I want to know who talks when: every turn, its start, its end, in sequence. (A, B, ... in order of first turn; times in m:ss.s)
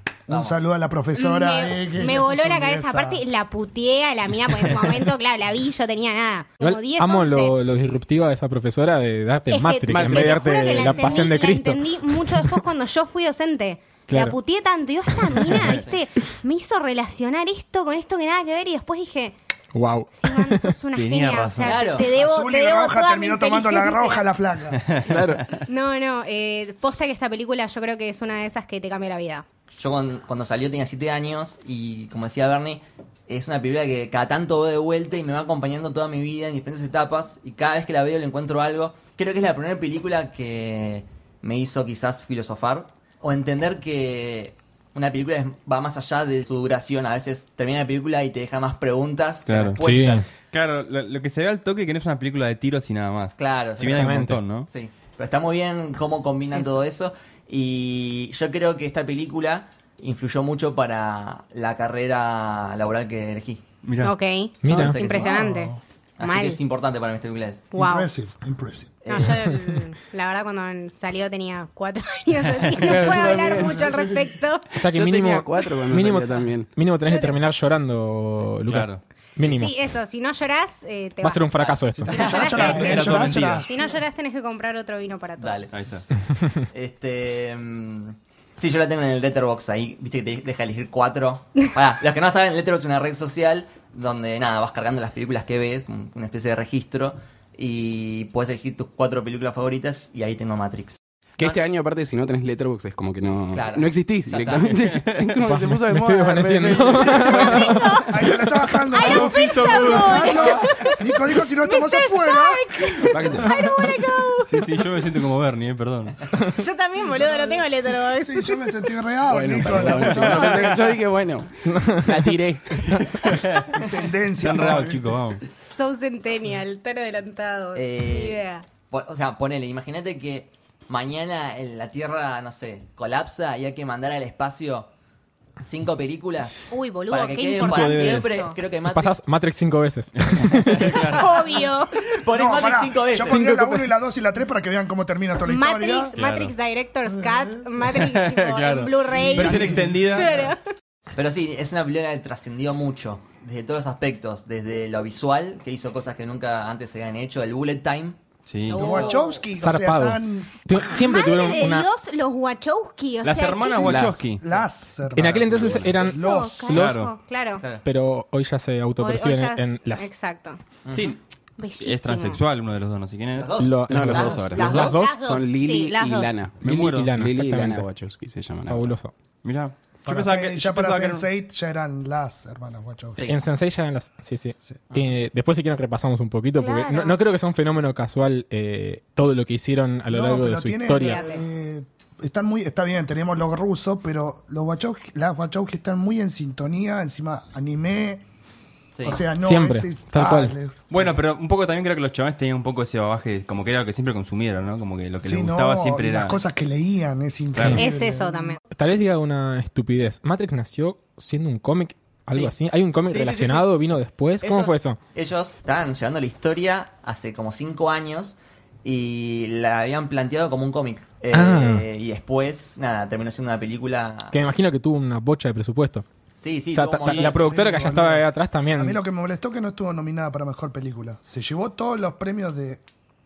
0:00.3-0:03.2 A
0:00.3-0:00.6 B
0:01.2-0:07.6 C
0:06.6-0:12.6 D
0:09.5-0:19.3 C
0:09.9-0:11.2 E
0:14.1-0:14.4 D
0:15.3-0:15.6 D
0:15.6-0:16.0 B
0:19.7-0:20.8 D
0:20.1-0:24.2 C
0:20.9-0:22.0 F
0:21.6-0:22.1 B
0:22.1-0:24.8 A
0:24.8-0:25.6 F
0:25.1-0:25.4 D
0:25.7-0:29.4 C
0:29.8-0:50.3 B
0:49.5-0:49.8 F
0:49.8-0:50.2 D
0:50.4-0:54.7 F
0:53.4-0:54.1 B
0:53.9-0:54.4 D
0:54.7-1:03.6 B
1:03.8-1:04.2 F
1:04.0-1:06.6 C
1:04.6-1:05.0 D
1:04.7-1:05.4 B
1:05.2-1:05.8 A
1:06.2-1:07.7 B
1:07.7-1:08.1 C
1:07.8-1:09.0 A
1:09.0-1:09.4 B
1:09.1-1:14.7 C
1:12.8-1:13.6 D
1:12.8-1:14.1 E
1:14.7-1:19.7 D
1:14.8-1:16.7 E
1:17.1-1:17.4 C
1:18.7-1:19.0 F
1:19.4-1:25.7 C
1:21.2-1:22.3 D
1:22.0-1:23.7 A
1:22.1-1:22.9 B
1:22.4-1:23.7 F
1:25.4-1:25.7 B
1:25.7-1:26.1 F
1:26.4-1:26.6 D
1:26.7-1:41.6 B
1:41.4-1:48.1 E
1:43.5-1:44.7 B
1:44.7-1:45.4 F
1:45.4-1:47.8 D
1:47.3-1:48.2 C
1:48.1-1:53.2 A
1:48.9-1:55.2 C
1:49.0-1:50.6 F
1:53.1-1:53.6 E
1:54.4-1:56.2 F
1:56.5-1:58.7 C
1:58.2-2:00.7 A
1:59.3-2:03.3 E
2:00.2-2:00.7 C
2:00.3-2:00.7 F
2:01.6-2:03.4 D
2:03.2-2:03.8 F
2:03.7-2:05.2 A
2:04.4-2:05.4 F
2:05.6-2:08.6 C
2:07.7-2:14.9 B
2:15.6-2:19.2 B
2:16.7-2:18.6 C
2:17.6-2:18.4 F
2:18.9-2:21.0 D
2:20.2-2:21.3 F
2:20.7-2:23.4 B
2:21.1-2:22.0 C
2:22.3-2:26.2 A
2:23.2-2:23.9 D
2:25.5-2:30.6 C
2:26.2-2:26.5 D
2:27.1-2:27.7 A
2:27.9-2:30.5 F
2:29.1-2:30.5 A
2:31.2-2:38.2 B
2:38.5-2:39.0 F
2:38.7-2:39.4 C
2:38.7-2:41.0 A
2:38.7-2:39.2 B
2:39.6-2:41.9 D
2:40.8-2:44.1 C
2:43.2-2:44.4 F
2:43.8-2:44.3 E
2:44.4-2:46.7 A
2:45.2-2:47.0 D
2:45.8-2:47.6 C
2:46.7-2:47.1 F
2:47.8-2:50.1 D
2:49.0-2:50.6 C
2:50.8-2:51.1 B
2:50.9-2:54.7 F
2:51.6-2:52.4 C
2:53.4-2:55.1 B
2:53.6-2:55.2 D
2:53.9-2:59.0 E
2:54.6-2:56.4 C
2:56.6-2:57.2 F
2:56.6-2:57.9 D
2:58.7-2:59.1 D
2:59.4-3:01.3 F
3:00.1-3:03.3 A
3:03.3-3:11.2 D
3:06.6-3:07.2 C
3:10.1-3:18.2 A
3:10.9-3:11.4 C
3:18.9-3:19.2 B
3:19.0-3:20.8 A
3:19.4-3:20.6 D
3:20.9-3:26.4 F
3:25.2-3:28.6 A
3:27.5-3:27.8 F
3:27.6-3:27.8 D
3:27.7-3:28.6 C
3:28.7-3:35.0 D
3:33.1-3:33.6 B
3:34.4-3:44.4 B
3:41.3-3:41.8 D
3:44.3-3:46.0 D
3:46.4-3:47.6 B
3:46.7-3:49.0 D
3:47.1-3:52.8 A